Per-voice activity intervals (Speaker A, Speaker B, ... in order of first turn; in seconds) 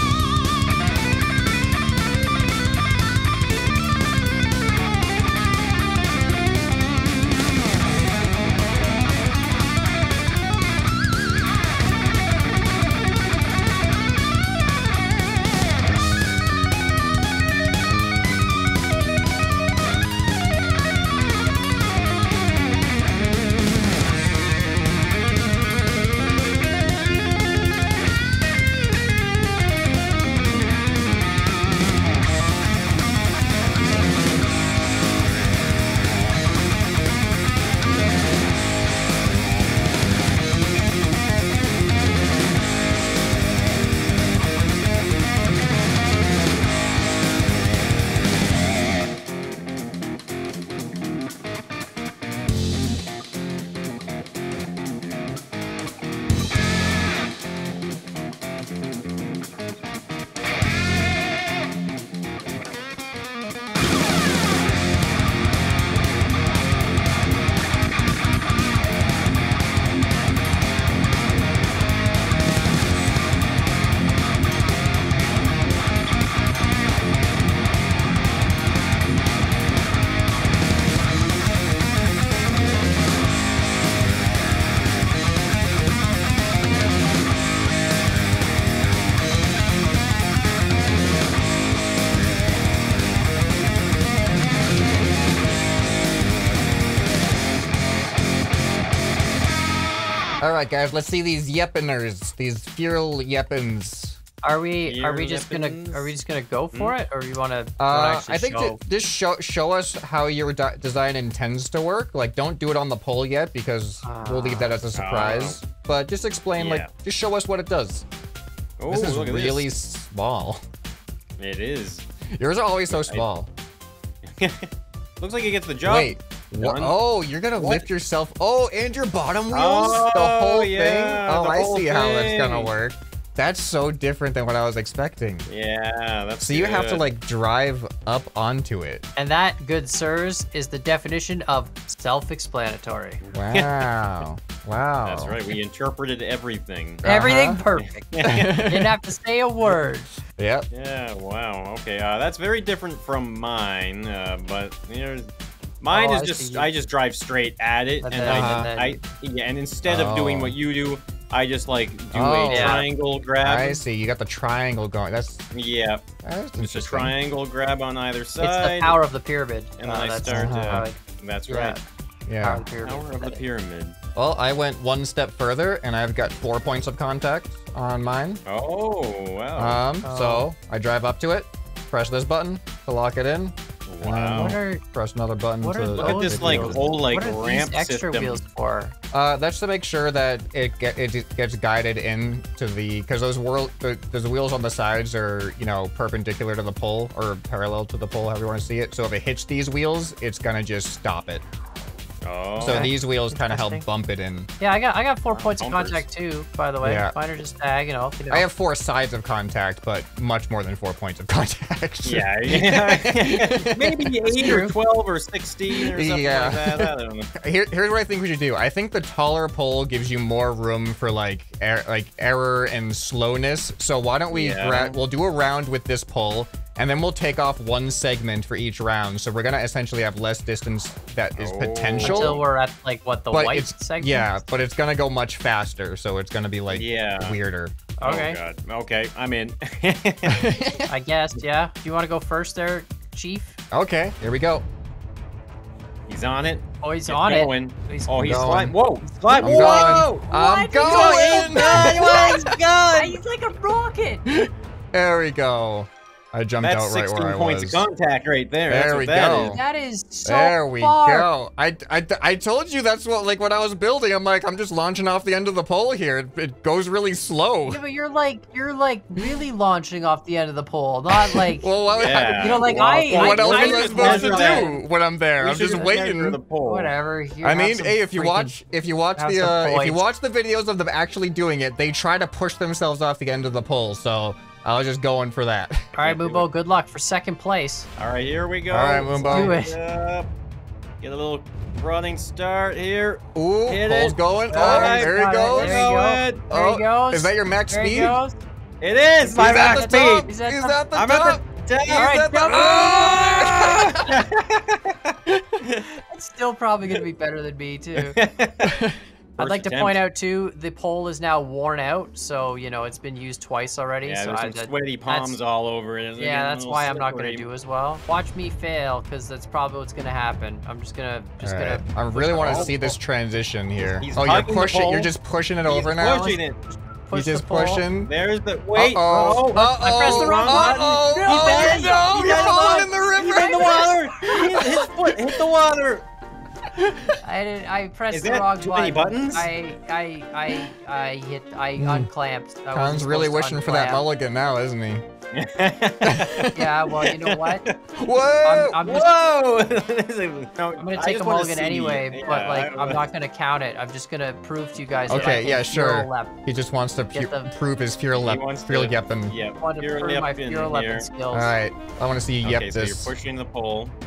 Speaker A: 100.4-104.2, 107.8-118.0, 118.9-120.6, 122.4-123.5, 125.8-135.5, 136.4-139.0, 143.3-145.4, 147.0-147.6, 148.2-149.0, 150.4-150.7, 158.2-158.7, 159.8-160.6, 162.1-162.9, 163.4-165.4, 166.2-167.1, 170.2-170.8, 172.3-172.6, 174.1-178.4, 179.6-186.8, 189.1-201.4, 202.6-204.5, 206.8-207.1, 208.3-214.1, 215.8-232.4, 233.3-237.8, 240.3-240.9, 243.7-244.6, 248.2-248.7, 249.4-252.2, 254.2-257.8, 258.7-259.6, 260.2-267.8, 271.1-276.4, 277.4-285.9, 288.7-289.6, 293.3-295.9, 296.5-298.2, 299.3-304.1, 308.6-309.0, 321.4-326.4, 327.1-328.1, 328.7-334.9, 336.8-337.1, 341.8-342.1, 342.7-345.0, 346.0-346.5, 347.9-348.8, 355.1-359.3, 361.3-363.1
Speaker B: 104.4-108.8, 114.0-114.8, 139.2-143.2, 147.0-148.0, 148.5-150.1, 155.9-156.7, 158.0-159.0, 162.5-162.8, 168.4-170.9, 171.5-171.8, 172.4-173.4, 180.0-180.5, 184.4-184.8, 185.6-188.9, 202.7-203.8, 204.6-208.5, 214.2-214.7, 232.0-234.5, 238.0-238.4, 240.9-243.6, 246.8-248.5, 249.2-254.2, 259.2-261.3, 267.7-274.8, 276.6-278.5, 279.1-280.0, 286.0-287.9, 289.2-289.8, 294.5-298.4, 299.3-300.8, 301.9-303.7, 306.1-308.1, 309.4-315.4, 316.1-323.0, 326.1-327.9, 329.1-334.5, 337.2-344.0, 346.5-347.6, 348.4-349.1, 350.8-356.3, 357.1-357.5, 359.6-361.5
Speaker C: 104.8-106.2, 114.9-115.6, 116.5-116.9, 118.8-119.7, 121.4-122.0, 122.9-123.2, 124.2-124.7, 125.2-127.0, 127.5-127.9, 129.5-132.7, 135.5-137.0, 143.2-143.9, 145.0-147.1, 147.8-148.5, 150.7-155.3, 155.8-163.8, 165.5-166.0, 166.6-169.0, 169.8-171.8, 172.8-173.9, 178.4-179.8, 183.9-184.6, 186.0-188.4, 202.2-202.9, 205.3-206.1, 212.0-217.3, 224.3-225.0, 231.3-232.4, 236.7-237.4, 238.0-240.5, 246.1-250.2, 250.8-253.2, 256.6-259.6, 272.0-274.7, 275.4-276.9, 286.0-286.4, 288.0-290.3, 291.0-296.4, 298.8-300.3, 300.9-304.9, 307.9-308.7, 309.4-310.0, 314.0-317.4, 322.4-322.8, 323.8-325.1, 325.6-326.6, 328.1-336.1, 338.1-339.5, 345.4-347.8, 348.8-353.1, 355.1-355.4, 358.1-361.1, 362.4-363.9